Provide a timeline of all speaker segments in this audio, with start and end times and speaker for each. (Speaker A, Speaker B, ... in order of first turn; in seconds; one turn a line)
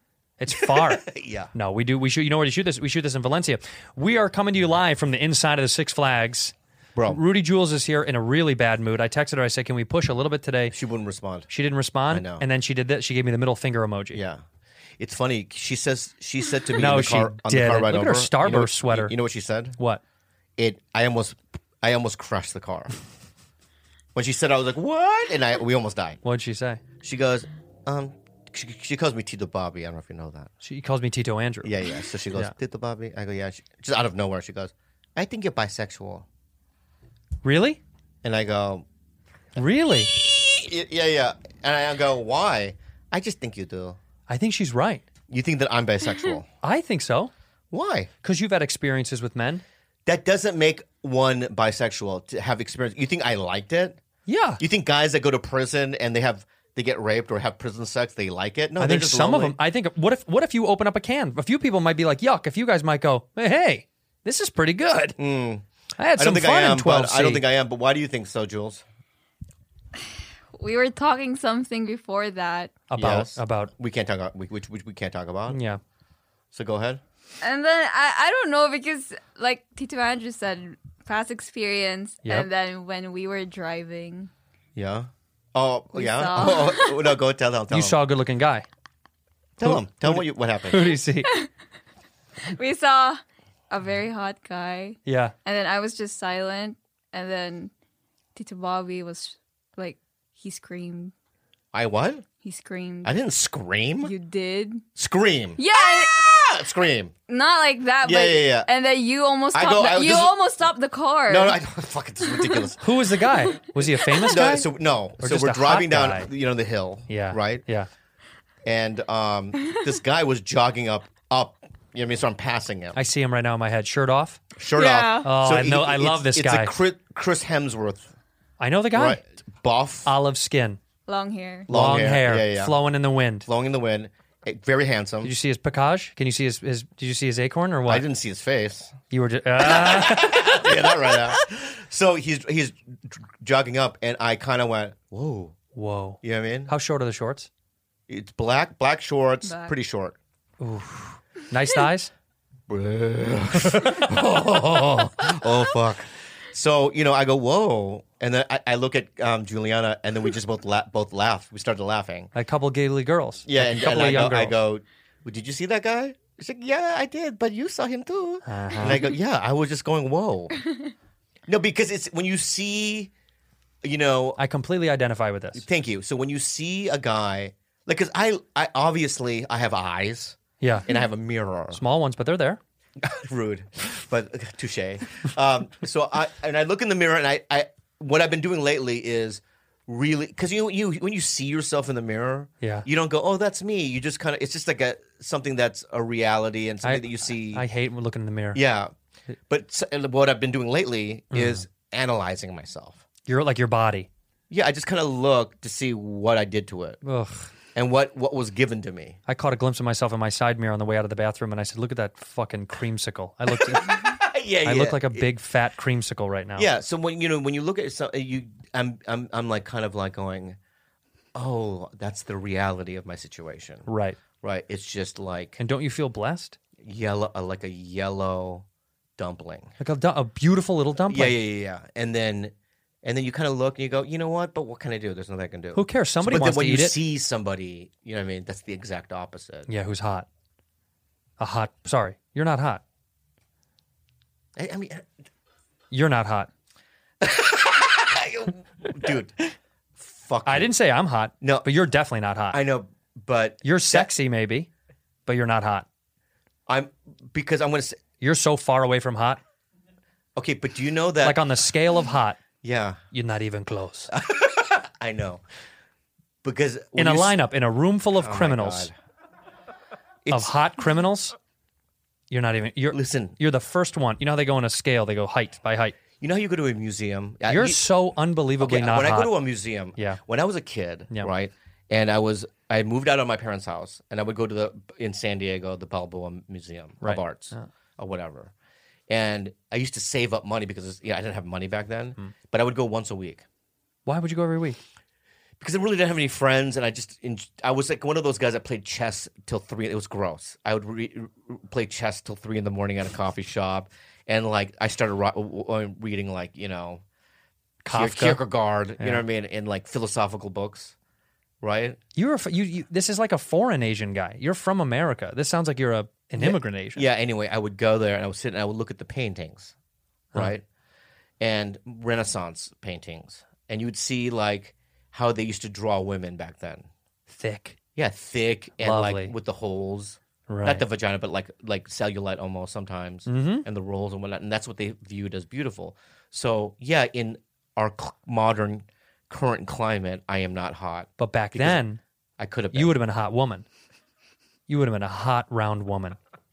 Speaker A: 0.4-6.5
Speaker B: 0.5-1.5
Speaker B: 7.0-7.2
Speaker A: 7.1-10.8
Speaker B: 10.7-11.5
Speaker A: 11.5-14.2
Speaker B: 12.1-12.4
Speaker B: 14.1-14.4
Speaker B: 15.0-19.8
Speaker A: 16.8-19.1
Speaker B: 20.6-23.0
Speaker B: 24.1-26.2
Speaker A: 26.2-26.8
Speaker B: 27.0-30.5
Speaker A: 30.6-31.7
Speaker B: 31.6-36.3
Speaker A: 37.4-37.8
Speaker B: 38.2-38.9
Speaker A: 39.6-40.1
Speaker B: 39.6-44.0
Speaker A: 44.3-45.1
Speaker B: 45.3-46.5
Speaker A: 46.6-47.3
Speaker B: 47.7-48.1
Speaker A: 48.2-49.6
Speaker B: 50.1-54.0
Speaker A: 54.3-54.6
Speaker B: 54.6-59.6
Speaker A: 58.8-65.2
Speaker B: 65.2-65.7
Speaker A: 66.0-67.4
Speaker B: 66.2-68.8
Speaker C: 70.5-72.8
Speaker A: 72.9-73.7
Speaker B: 73.0-75.6
Speaker A: 75.5-75.8
Speaker B: 76.5-77.0
Speaker C: 77.4-84.3
Speaker B: 84.8-88.0
Speaker C: 85.9-87.1
Speaker A: 87.7-88.7
Speaker B: 89.6-90.9
Speaker A: 89.6-91.3
Speaker C: 92.5-97.7
Speaker A: 95.1-95.3
Speaker C: 98.3-101.1
Speaker B: 101.7-102.3
Speaker C: 102.4-103.2
Speaker B: 103.0-104.1
Speaker C: 104.0-104.8
Speaker B: 105.0-107.1
Speaker C: 105.6-106.4
Speaker C: 107.3-111.6
Speaker B: 108.0-108.7
Speaker B: 109.5-110.4
Speaker B: 111.3-112.8
Speaker C: 112.4-112.7
Speaker A: 112.8-114.7
Speaker B: 114.3-117.6
Speaker A: 115.2-116.3
Speaker A: 117.1-117.9
Speaker B: 118.7-123.0
Speaker A: 123.0-124.5
Speaker B: 124.6-128.1
Speaker C: 124.8-125.3
Speaker A: 125.2-126.7
Speaker A: 128.6-129.2
Speaker B: 128.9-130.1
Speaker A: 130.1-130.8
Speaker C: 131.1-131.7
Speaker B: 131.7-132.8
Speaker A: 131.7-133.5
Speaker B: 133.4-135.3
Speaker A: 135.2-138.0
Speaker B: 137.9-138.9
Speaker A: 139.1-141.4
Speaker B: 139.6-145.6
Speaker A: 145.8-147.5
Speaker B: 146.2-146.7
Speaker B: 148.1-150.2
Speaker C: 149.4-149.7
Speaker A: 150.6-152.1
Speaker B: 152.7-162.3
Speaker A: 153.7-154.1
Speaker A: 154.8-155.0
Speaker A: 162.3-164.6
Speaker B: 163.5-170.6
Speaker A: 168.5-169.1
Speaker B: 171.5-173.1
Speaker B: 173.8-174.4
Speaker A: 174.4-175.6
Speaker B: 175.6-181.8
Speaker A: 180.6-180.9
Speaker A: 181.7-182.6
Speaker B: 183.0-197.6
Speaker A: 196.8-198.6
Speaker B: 198.5-198.9
Speaker B: 199.5-203.0
Speaker A: 201.3-201.6
Speaker A: 203.3-204.1
Speaker B: 204.5-207.0
Speaker A: 207.1-207.5
Speaker B: 207.7-209.2
Speaker A: 209.3-214.1
Speaker B: 213.5-215.3
Speaker A: 214.7-216.7
Speaker B: 216.6-220.6
Speaker B: 221.3-223.9
Speaker A: 223.9-224.2
Speaker B: 224.4-225.6
Speaker A: 225.6-226.6
Speaker B: 226.8-228.7
Speaker B: 229.2-229.7
Speaker A: 229.8-231.4
Speaker B: 231.1-239.7
Speaker A: 235.7-237.0
Speaker A: 239.7-240.3
Speaker A: 241.4-242.8
Speaker B: 244.6-245.1
Speaker A: 245.9-246.5
Speaker B: 247.2-249.4
Speaker B: 250.0-250.7
Speaker A: 250.4-252.6
Speaker B: 251.4-251.7
Speaker B: 252.5-254.1
Speaker A: 253.6-254.7
Speaker A: 255.3-255.9
Speaker B: 256.7-258.0
Speaker A: 258.2-259.4
Speaker B: 260.4-261.4
Speaker A: 261.2-262.4
Speaker B: 262.6-263.0
Speaker A: 263.1-264.1
Speaker B: 264.1-265.4
Speaker B: 266.4-267.4
Speaker A: 267.0-268.9
Speaker B: 268.1-268.9
Speaker B: 270.3-270.5
Speaker A: 270.3-271.4
Speaker A: 272.3-276.0
Speaker B: 272.9-273.4
Speaker B: 276.2-277.9
Speaker A: 277.5-279.3
Speaker B: 278.6-288.5
Speaker A: 287.0-287.7
Speaker B: 289.1-293.4
Speaker A: 294.1-294.8
Speaker B: 295.6-307.0
Speaker A: 307.8-308.4
Speaker B: 307.9-310.9
Speaker B: 311.6-312.0
Speaker A: 312.2-317.1
Speaker B: 316.4-319.7
Speaker B: 320.4-320.6
Speaker B: 321.4-326.9
Speaker A: 327.3-327.8
Speaker B: 328.0-341.8
Speaker A: 328.8-329.3
Speaker A: 330.5-330.8
Speaker A: 333.3-333.6
Speaker A: 341.2-342.0
Speaker B: 342.4-342.9
Speaker A: 342.7-343.6
Speaker A: 344.7-346.2